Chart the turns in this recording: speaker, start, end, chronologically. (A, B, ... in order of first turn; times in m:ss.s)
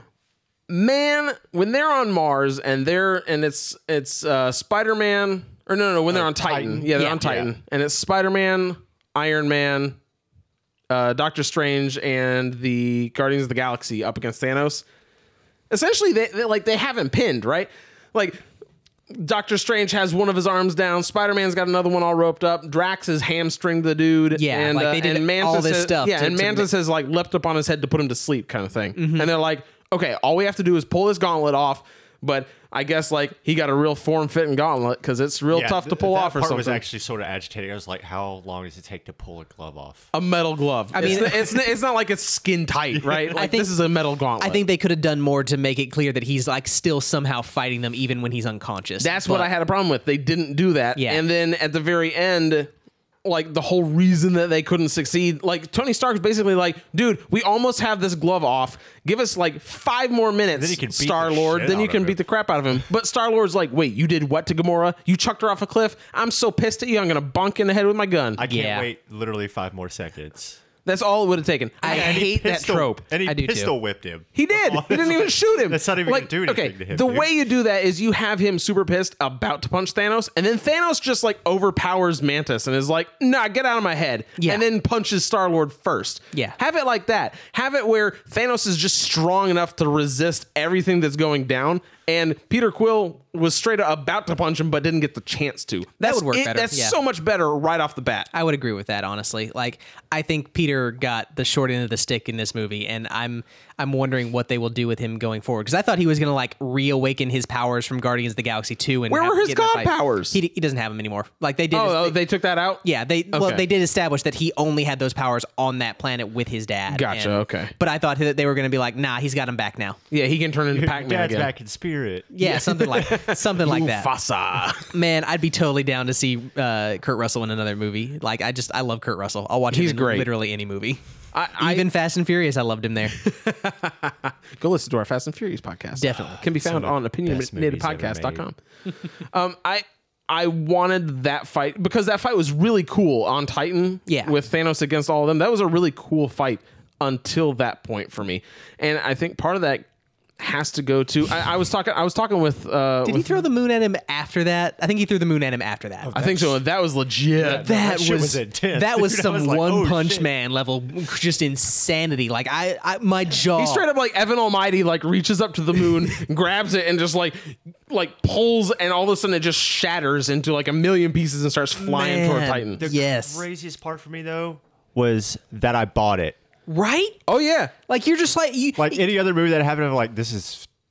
0:00.7-0:10.0 A
0:06.1-0:07.5 B
0:10.9-0:14.8 A
0:15.7-0:18.4 A
0:19.1-0:36.8 A
0:24.3-0:26.7 C
0:29.0-0:29.3 C
0:35.5-0:40.1 B
0:40.1-0:44.6 A
0:40.9-0:41.6 C
0:41.0-0:41.5 B
0:42.9-0:43.3 B
0:43.3-0:43.8 C
0:44.4-0:49.5 C
0:49.0-0:52.7 A
0:51.0-0:51.2 C
0:53.2-1:08.4 A
1:00.5-1:02.2 B
1:08.4-1:10.6 B
1:08.5-1:08.9 C
1:10.8-1:13.0 A
1:11.8-1:13.7 C
1:11.8-1:17.3 B
1:14.3-1:38.3 A
1:24.4-1:24.6 C
1:36.0-1:37.0 C
1:38.3-1:52.2 C
1:49.1-1:50.4 A
1:51.7-1:53.6 A
1:52.8-2:00.0 C
1:56.9-1:57.7 A
2:00.1-2:01.5 A
2:00.7-2:02.4 B
2:02.3-2:04.1 C
2:02.4-2:04.9 A
2:04.9-2:11.0 C
2:09.7-2:10.3 A
2:11.3-2:11.9 A
2:11.6-2:13.2 C
2:13.2-2:18.6 A
2:16.0-2:16.4 C
2:16.3-2:18.4 B
2:19.1-2:29.9 A
2:24.1-2:24.3 C
2:30.4-2:33.4 A
2:33.0-2:36.1 C
2:36.0-2:36.6 B
2:36.1-2:37.7 A
2:37.4-2:40.3 B
2:37.5-2:43.8 C
2:43.6-2:52.8 A
2:51.8-2:53.4 C
2:52.8-2:56.4 B
2:56.7-2:57.2 C
2:57.3-2:57.7 A
2:57.9-2:59.1 C
2:58.8-3:00.7 B